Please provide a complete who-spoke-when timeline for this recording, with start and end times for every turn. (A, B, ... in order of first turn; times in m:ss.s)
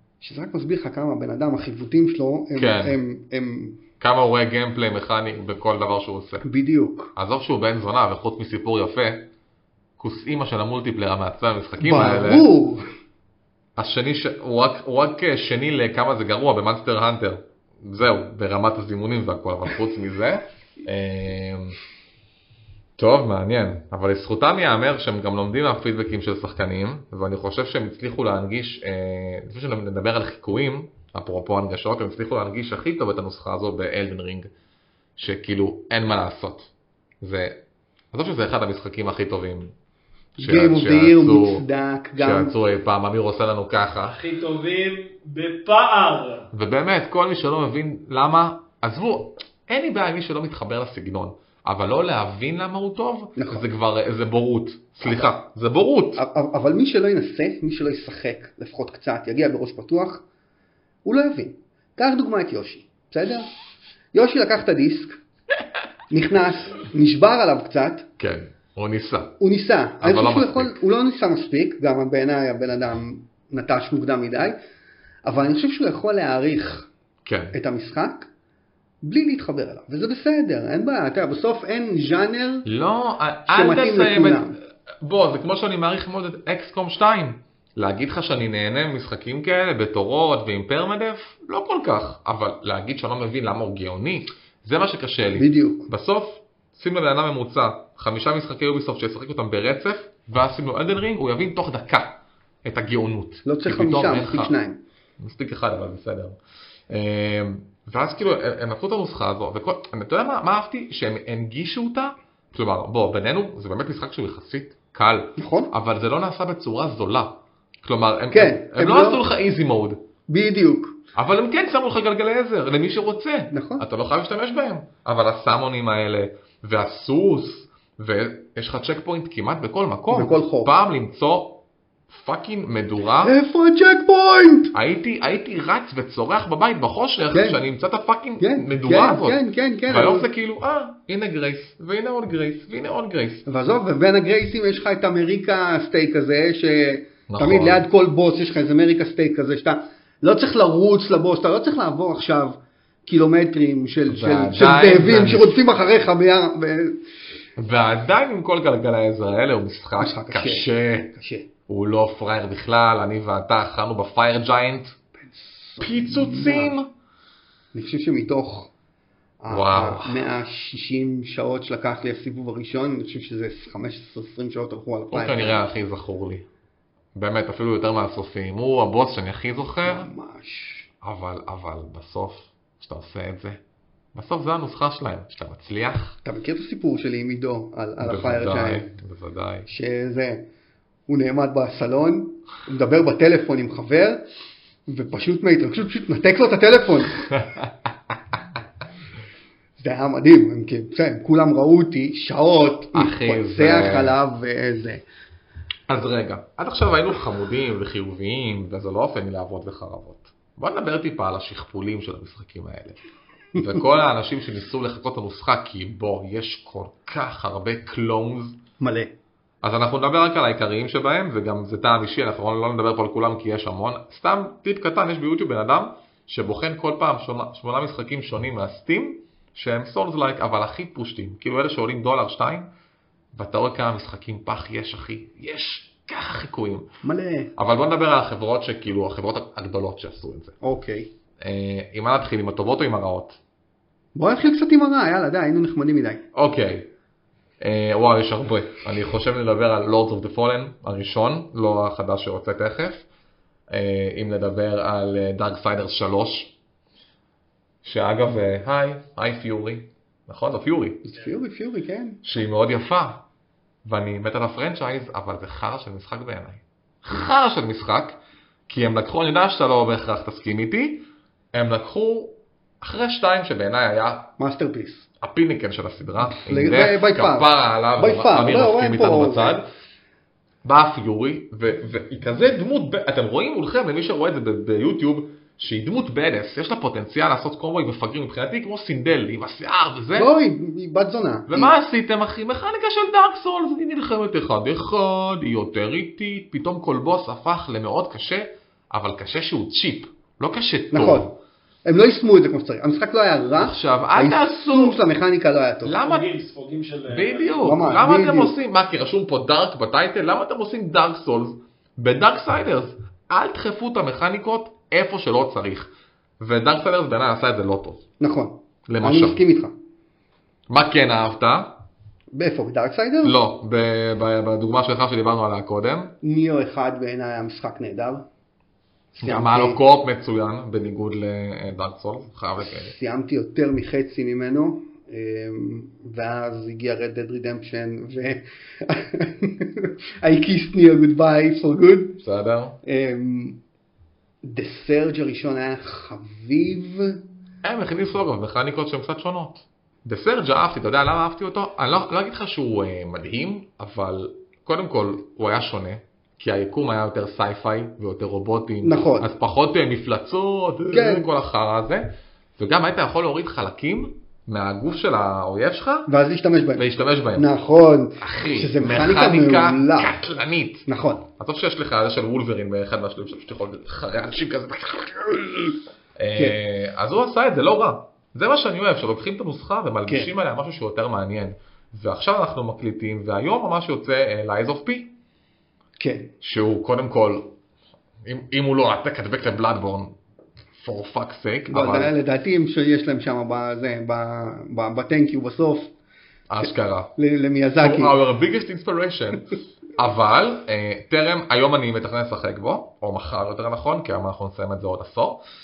0:00.2-0:03.8 A
0:02.6-0:03.0 B
0:04.0-0:06.4 B
0:06.4-0:07.1 A
0:07.2-0:09.3 B
0:10.0-0:12.5 B
0:11.8-0:12.8 A
0:13.8-0:21.8 B
0:23.0-0:34.5 B
0:35.2-0:36.7 B
0:37.2-0:37.6 B
0:38.1-0:39.7 B
0:40.4-0:42.5 A
0:40.4-0:41.6 B
0:42.2-0:44.2 B
0:44.1-0:46.5 C
0:46.5-0:56.2 B
0:53.4-0:53.6 A
0:56.2-1:00.2 A
1:01.0-1:03.5 A
1:04.1-1:05.2 A
1:06.1-1:08.1 A
1:08.2-1:09.4 B
1:09.4-1:14.6 A
1:10.0-1:10.8 B
1:15.2-1:16.9 A
1:17.2-1:17.6 B
1:17.5-1:18.3 A
1:19.0-1:22.7 A
1:22.6-1:44.5 B
1:23.4-1:24.6 A
1:35.4-1:35.9 A
1:43.4-1:44.8 A
1:45.2-1:46.4 B
1:46.9-2:00.0 B
1:55.4-1:55.7 A
1:58.3-1:59.2 A
2:00.3-2:01.0 A
2:01.1-2:13.3 B
2:03.5-2:03.8 A
2:10.1-2:10.7 A
2:13.2-2:14.7 A
2:14.7-2:23.4 B
2:17.3-2:17.6 A
2:18.4-2:20.3 A
2:23.5-2:37.0 A
2:27.3-2:27.8 B
2:34.1-2:35.6 B
2:37.6-2:41.1 B
2:40.0-2:41.5 A
2:41.7-2:45.0 B
2:45.2-2:46.7 A
2:45.8-2:46.9 B
2:47.7-2:48.7 A
2:49.4-2:55.6 A
2:49.5-2:50.2 B
2:55.1-2:56.4 B
2:57.1-3:00.1 B
2:59.8-3:00.9 A
3:01.0-3:03.6 B
3:04.1-3:06.2 B
3:06.2-3:08.9 A
3:08.0-3:09.7 B
3:09.7-3:10.5 A
3:11.1-3:14.2 A
3:14.9-3:17.3 A
3:19.8-3:25.0 A
3:22.9-3:24.2 B
3:25.9-3:33.0 B
3:33.5-3:38.6 B
3:38.8-3:39.1 A
3:39.6-3:52.7 B
3:53.3-3:56.9 B
3:57.0-3:57.5 A
3:57.6-4:00.6 B
4:00.6-4:01.1 A
4:01.4-4:03.4 B
4:04.1-4:06.2 A
4:06.3-4:06.9 B
4:07.6-4:13.0 B
4:13.7-4:16.5 B
4:17.8-4:21.0 B
4:21.0-4:22.2 A
4:22.2-4:23.2 B
4:23.8-4:34.3 B
4:34.4-4:35.1 A
4:35.2-4:39.6 B
4:36.2-4:39.6 A
4:40.6-4:50.3 B
4:50.2-4:51.7 A
4:51.5-5:01.3 B
5:00.9-5:06.0 A
5:03.6-5:05.0 B
5:05.8-5:06.3 B
5:05.9-5:07.6 C
5:07.1-5:15.9 B
5:07.6-5:08.5 A
5:16.4-5:18.0 B
5:18.2-5:19.7 A
5:18.9-5:19.4 B
5:20.7-5:21.8 B
5:22.3-5:23.4 A
5:23.2-5:26.1 B
5:26.2-5:28.3 A
5:29.1-5:29.8 A
5:29.2-5:32.9 B
5:32.6-5:42.2 A
5:42.2-5:42.8 B
5:42.8-5:43.6 A
5:44.4-5:47.2 A
5:47.6-6:06.1 B
5:58.8-5:59.3 A
6:00.9-6:01.3 A
6:06.1-6:10.1 A
6:06.8-6:07.5 B
6:08.2-6:25.1 B
6:10.8-6:11.3 A
6:26.0-6:26.3 A
6:26.4-6:27.5 B
6:28.2-6:30.1 B
6:30.8-6:32.1 B
6:31.7-6:35.9 A
6:36.5-6:37.1 B
6:36.6-6:38.2 A
6:37.8-6:45.4 B